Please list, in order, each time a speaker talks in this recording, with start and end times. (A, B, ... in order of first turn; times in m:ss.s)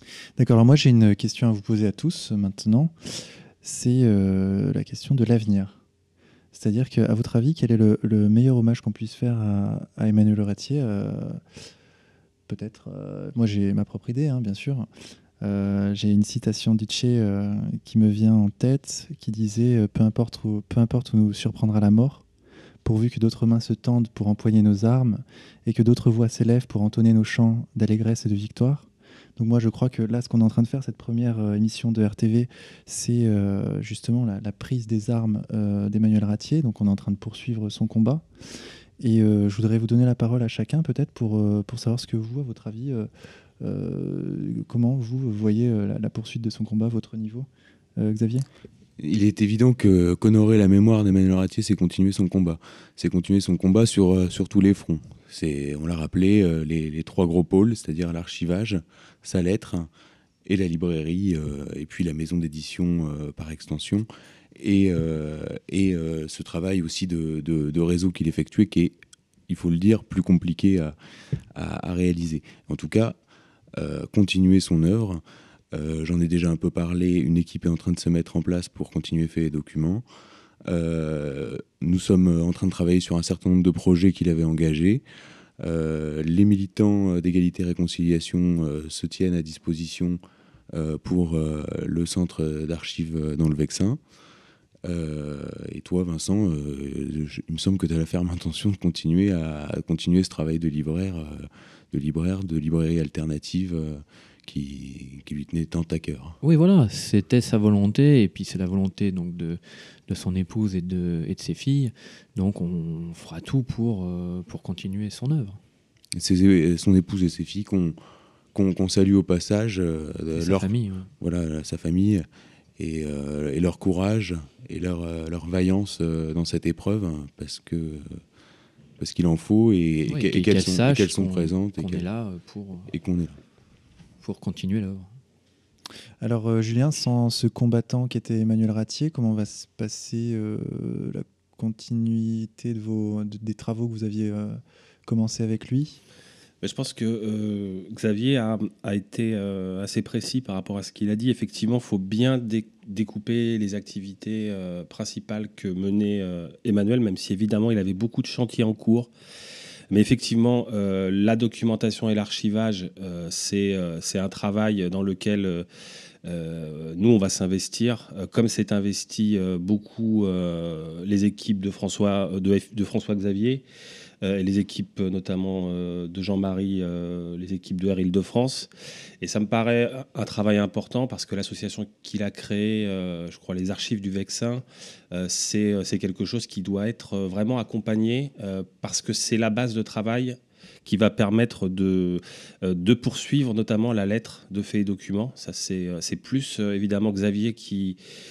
0:00.4-0:05.8 A
0:06.5-0:11.4 A
0:12.5-0:14.9 A
0:15.4-0:22.2 A
0:22.8-0:38.2 A
0:39.0-0:43.1 A
0:43.6-0:48.5 A
0:49.0-0:59.9 B
1:00.5-1:09.0 B
1:09.5-1:11.0 B
1:11.5-1:13.2 B
1:13.8-1:15.2 B
1:15.7-1:20.0 B
1:20.6-1:25.0 B
1:25.6-1:30.2 B
1:30.7-1:34.0 B
1:34.8-1:46.4 B
1:46.4-1:55.6 C
1:56.2-1:58.0 B
1:58.5-2:02.3 B
2:00.4-2:01.1 C
2:02.8-2:08.2 B
2:09.0-2:12.0 B
2:10.1-2:12.9 C
2:12.9-2:13.4 B
2:14.2-2:15.1 C
2:16.2-2:26.0 A
2:26.6-2:39.1 D
2:39.9-2:45.7 D
2:46.2-2:53.6 D
2:54.2-2:58.7 D
2:59.2-3:18.0 D